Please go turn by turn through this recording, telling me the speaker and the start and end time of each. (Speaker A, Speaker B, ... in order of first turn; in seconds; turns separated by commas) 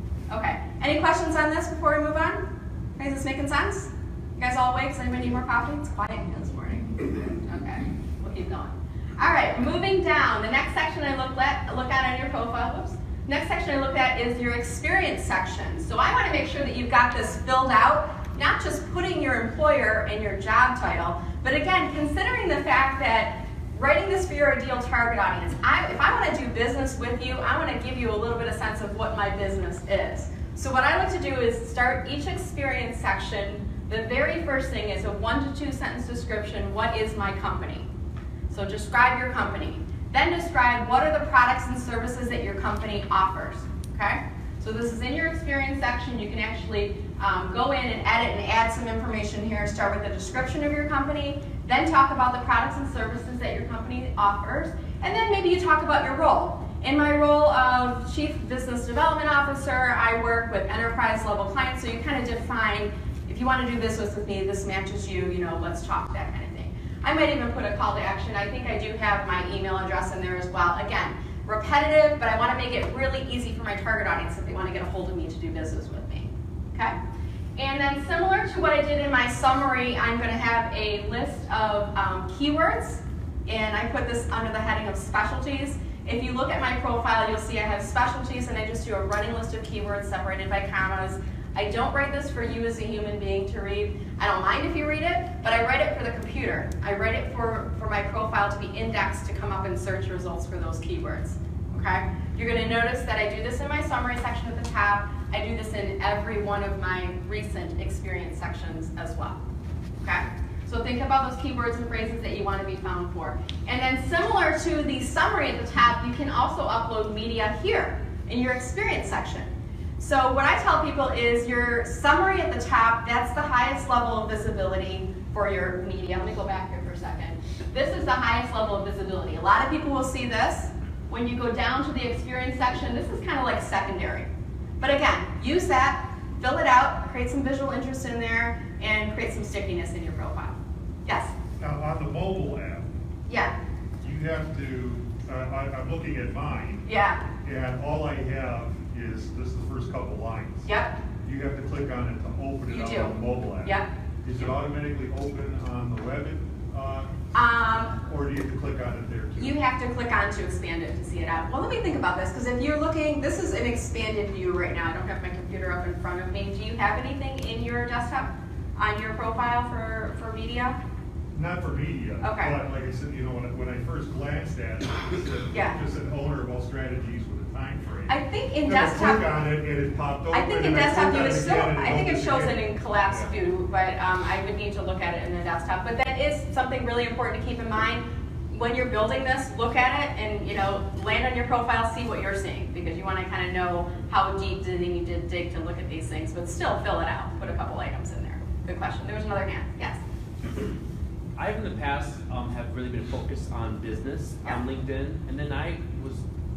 Speaker A: 0.3-2.5, Speaker A: 3.0-37.9, Speaker A: 38.5-76.9, Speaker A: 77.6-109.4, Speaker A: 110.0-134.3, Speaker A: 134.8-141.3, Speaker B: 141.6-142.9, Speaker A: 143.3-143.5, Speaker B: 144.0-146.9, Speaker A: 146.8-147.2, Speaker B: 147.4-150.7, Speaker A: 150.7-151.0, Speaker B: 151.2-157.1, Speaker A: 152.7-153.8, Speaker A: 157.3-157.9, Speaker B: 157.9-159.6, Speaker A: 159.4-170.8, Speaker B: 171.3-183.3, Speaker A: 172.2-172.6, Speaker A: 175.5-175.8, Speaker A: 178.1-179.3, Speaker A: 180.3-200.0, Speaker C: 201.4-206.2